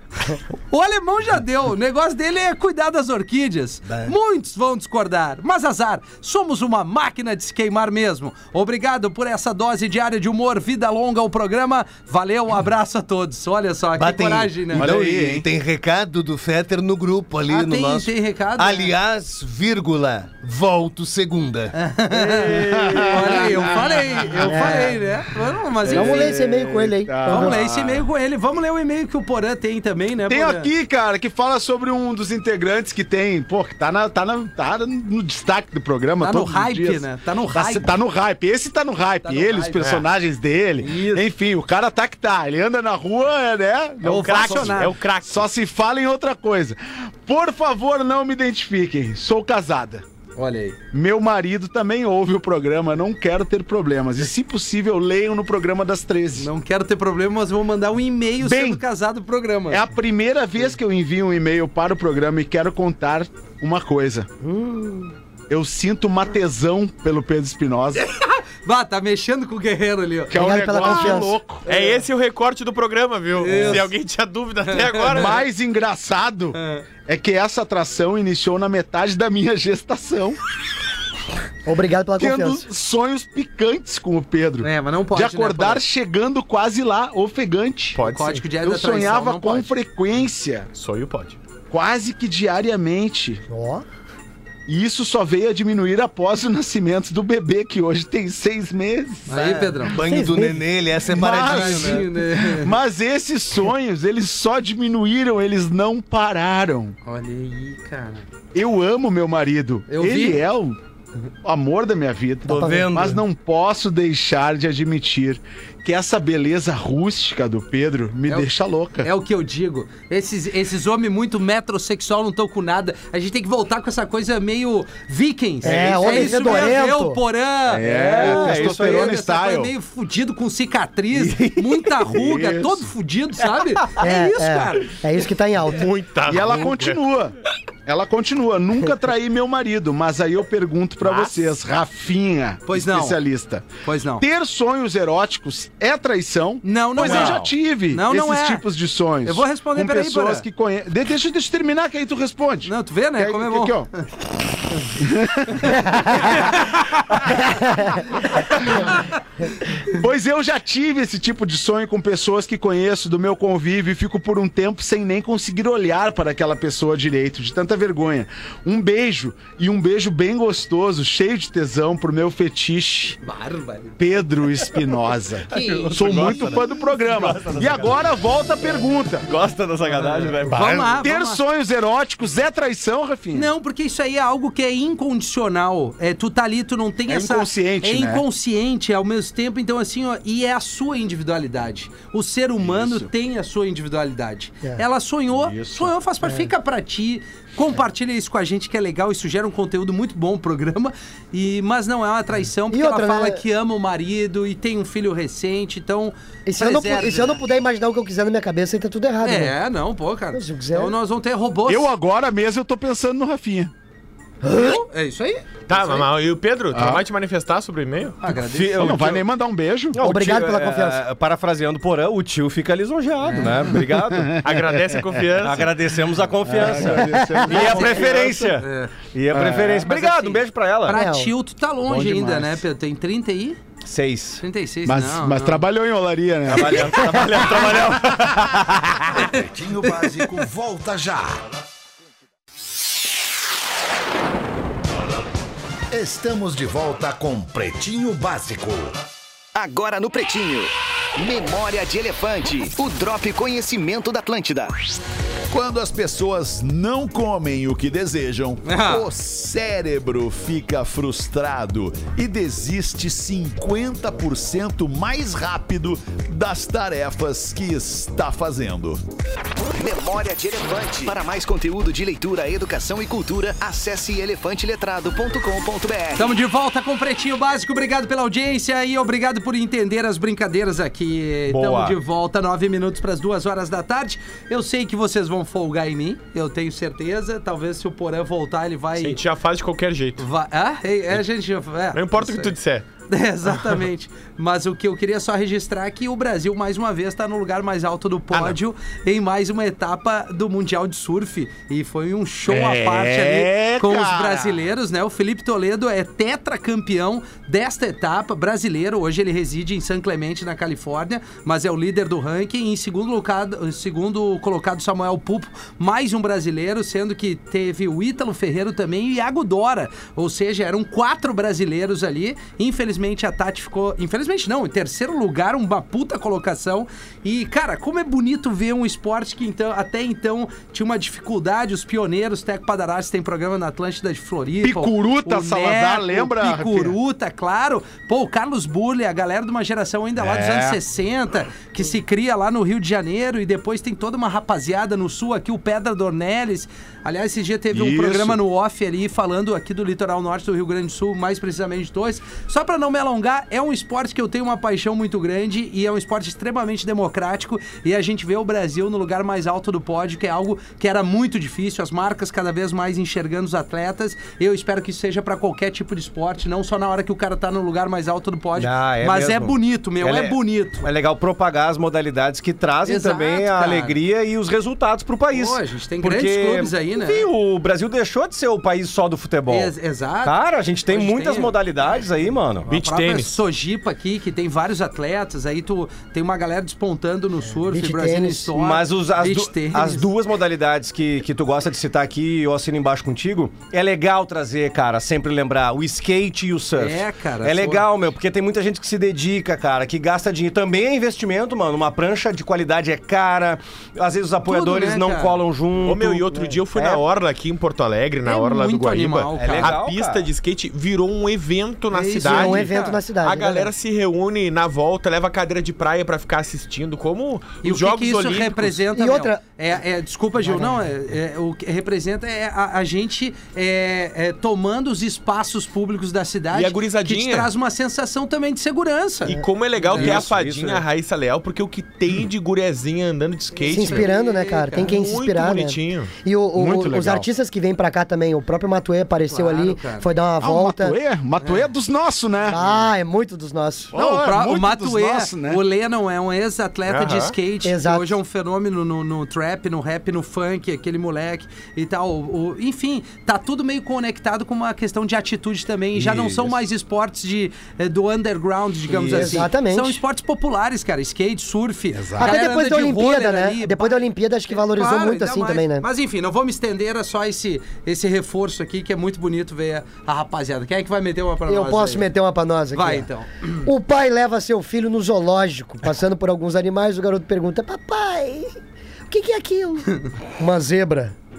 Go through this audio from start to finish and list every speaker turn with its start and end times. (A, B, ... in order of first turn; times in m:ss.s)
0:00.2-0:14.9 A
0:14.0-0:21.7 B
0:14.7-0:15.4 C
0:17.5-0:18.9 A
0:21.7-0:26.3 A
0:22.3-0:24.9 C
0:24.4-0:25.0 D
0:25.8-0:28.0 C
0:25.9-0:27.6 D
0:27.2-0:30.7 A
0:30.2-0:50.0 C
0:36.2-0:37.9 A
0:39.2-0:40.0 A
0:39.8-0:40.0 E
0:40.8-0:41.3 A
0:44.0-0:44.9 A
0:44.0-0:45.4 E
0:50.4-0:50.8 A
0:50.9-0:56.5 C
0:56.4-0:59.9 A
0:58.4-0:58.8 C
0:59.7-1:04.3 C
1:04.4-1:05.1 D
1:05.5-1:08.0 C
1:07.9-1:12.0 A
1:10.3-1:11.6 C
1:10.3-1:11.3 D
1:11.6-1:15.4 E
1:13.4-1:13.9 A
1:13.5-1:13.8 C
1:14.7-1:15.4 A
1:15.1-1:20.4 C
1:16.5-1:16.8 A
1:21.6-1:22.6 D
1:22.2-1:28.0 C
1:24.6-1:25.8 A
1:27.9-1:28.4 E
1:28.0-1:29.7 A
1:28.6-1:30.7 C
1:30.7-1:31.4 E
1:31.7-1:33.4 C
1:33.5-1:33.8 D
1:34.7-1:39.4 C
1:39.3-1:40.0 A
1:39.3-1:42.1 B
1:40.0-1:40.5 D
1:41.0-1:47.0 C
1:41.3-1:42.7 A
1:47.0-1:48.2 A
1:48.5-1:50.8 C
1:49.9-1:50.4 A
1:51.4-1:59.1 C
1:52.5-1:53.2 F
1:52.5-1:53.0 D
1:59.0-2:15.0 A
2:05.6-2:07.2 D
2:05.6-2:06.6 F
2:07.7-2:09.7 C
2:07.8-2:09.2 F
2:11.1-2:12.0 F
2:12.1-2:12.9 C
2:14.0-2:15.9 D
2:15.7-2:17.0 E
2:16.2-2:17.3 C
2:17.8-2:23.6 C
2:21.1-2:21.3 E
2:22.6-2:23.2 A
2:23.8-2:24.2 A
2:24.2-2:33.9 C
2:26.6-2:28.6 A
2:27.0-2:27.4 F
2:29.2-2:30.4 A
2:32.6-2:33.9 A
2:35.0-2:36.4 C
2:37.0-2:37.4 C
2:37.6-2:37.9 D
2:38.5-2:38.9 C
2:39.9-2:53.2 C
2:53.2-2:54.2 A
2:54.0-2:59.3 C
2:55.5-2:56.6 A
2:55.5-2:58.0 F
2:59.2-3:01.0 F
3:00.4-3:01.4 A
3:00.9-3:03.5 C
3:03.3-3:27.4 A
3:07.1-3:08.2 C
3:12.6-3:13.1 C
3:15.4-3:15.9 C
3:16.2-3:16.5 D
3:22.7-3:23.4 D
3:26.4-3:29.6 D
3:29.2-3:31.9 A
3:30.3-3:30.9 D
3:31.7-3:33.7 C
3:34.4-3:34.8 D
3:34.5-3:36.1 A
3:35.7-3:38.2 E
3:36.7-3:37.0 C
3:38.2-3:39.2 A
3:38.5-3:39.2 F
3:38.7-3:40.0 C
3:39.9-3:44.4 F
3:40.0-3:41.0 D
3:43.2-3:43.6 A
3:43.7-3:45.2 C
3:44.4-3:45.8 E
3:45.4-3:51.0 F
3:46.4-3:48.6 C
3:46.9-3:47.8 D
3:47.5-3:48.9 A
3:49.3-3:50.1 C
3:49.8-3:53.6 A
3:50.9-3:51.3 D
3:51.8-3:52.6 C
3:53.8-3:54.4 F
3:54.4-3:55.6 A
3:54.8-3:57.8 C
3:56.5-3:59.2 F
3:56.6-3:56.8 A
3:56.9-3:57.5 D
3:59.1-4:00.3 A
3:59.2-4:01.4 G
4:05.9-4:09.0 G
4:09.5-4:14.7 H
4:15.5-4:29.0 G
4:18.6-4:19.1 A
4:29.7-4:36.3 H
4:36.2-4:49.2 A
4:41.5-4:42.0 F
4:49.0-4:50.2 E
4:50.2-4:52.5 A
4:51.9-4:52.9 E
4:53.1-6:10.9 A
5:02.5-5:04.6 C
5:34.6-5:37.0 C
5:40.2-5:40.8 C
5:47.7-5:48.4 C
6:08.6-6:22.7 F
6:12.8-6:14.0 A
6:15.3-6:17.3 A
6:19.5-6:21.5 A
6:22.7-6:23.4 E
6:22.7-6:30.1 A
6:27.6-6:28.5 D
6:28.6-6:47.0 F
6:36.8-6:37.9 A
6:44.4-6:45.4 A
6:45.8-6:58.8 E
6:48.2-6:49.8 A
6:49.4-6:50.3 F
6:51.9-6:53.0 A
6:52.2-6:53.7 D
6:57.6-7:10.2 A
6:58.9-6:59.4 D
7:00.4-7:00.8 D
7:06.5-7:07.5 E
7:09.2-7:14.1 E
7:09.9-7:10.8 F
7:13.6-7:15.0 A
7:13.7-7:21.0 D
7:14.7-7:17.2 E
7:19.3-7:20.1 A
7:20.4-7:22.6 C
7:22.5-7:23.9 D
7:23.9-7:25.6 C
7:23.9-7:52.1 A
7:26.9-7:27.3 E
7:27.6-7:28.1 D
7:36.0-7:36.5 F
7:38.9-7:39.4 F
7:39.1-7:40.0 D
7:41.9-7:42.4 C
7:42.2-7:45.9 D
7:51.5-7:53.1 D
7:52.7-7:53.7 A
7:53.6-7:58.6 D
7:59.1-8:01.2 D